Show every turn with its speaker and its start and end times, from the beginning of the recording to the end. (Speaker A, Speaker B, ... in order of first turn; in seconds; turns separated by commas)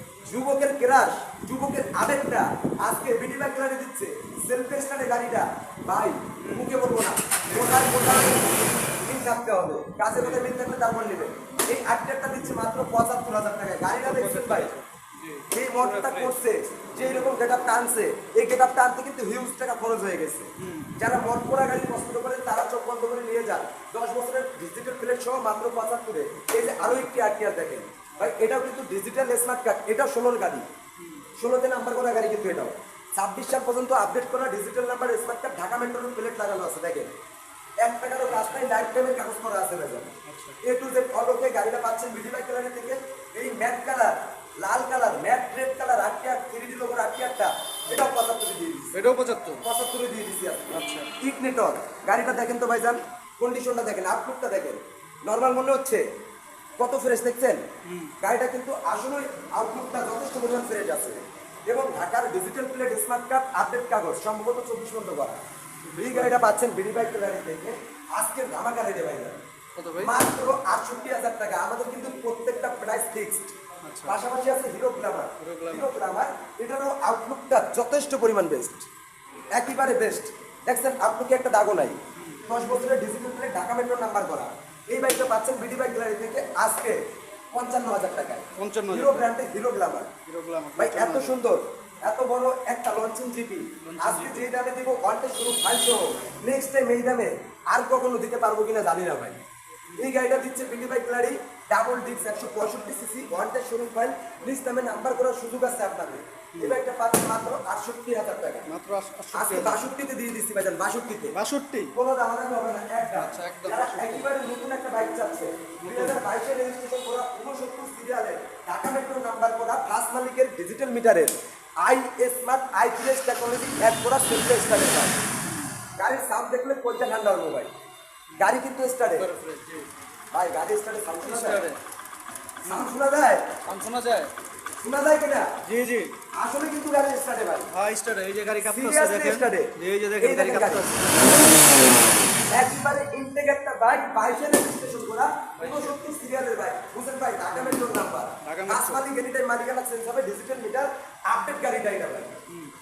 Speaker A: 0.2-14.7, Speaker B: 6.4-6.8, Speaker B: 7.5-7.7, Speaker B: 10.2-10.5, Speaker B: 13.9-16.4, Speaker A: 15.5-30.6, Speaker B: 16.9-17.4, Speaker B: 20.6-20.9, Speaker B: 26.7-27.2, Speaker B: 31.0-31.2, Speaker A: 31.4-37.1, Speaker A: 37.8-48.9, Speaker B: 38.3-38.6, Speaker B: 40.2-40.6, Speaker B: 48.9-49.6, Speaker A: 49.6-56.0, Speaker B: 50.7-51.1, Speaker A: 56.8-57.6, Speaker B: 57.8-58.1, Speaker A: 58.2-65.4, Speaker B: 65.9-66.4, Speaker A: 66.0-69.4, Speaker B: 69.8-70.2, Speaker A: 70.0-78.9, Speaker B: 73.8-74.2, Speaker B: 75.4-75.9, Speaker A: 79.5-87.0, Speaker B: 82.1-82.5, Speaker A: 87.5-90.1, Speaker B: 88.5-89.3, Speaker B: 90.3-91.3, Speaker A: 90.8-99.4, Speaker B: 93.8-94.5, Speaker A: 100.0-108.7, Speaker B: 106.5-106.8, Speaker B: 108.7-109.9, Speaker A: 109.3-111.3, Speaker B: 111.3-111.9, Speaker A: 111.9-125.2, Speaker B: 113.1-114.3, Speaker B: 115.8-116.2, Speaker B: 125.4-125.7, Speaker A: 126.0-127.7, Speaker B: 128.3-129.9, Speaker A: 128.4-129.3, Speaker A: 130.3-131.6, Speaker B: 131.2-131.8, Speaker B: 132.6-133.0, Speaker A: 132.6-133.6, Speaker B: 133.7-134.3, Speaker A: 134.8-135.5, Speaker B: 135.6-136.2, Speaker A: 136.3-137.7, Speaker B: 137.7-141.5, Speaker A: 138.6-140.9, Speaker A: 142.5-152.4, Speaker B: 145.6-146.0, Speaker B: 147.5-149.1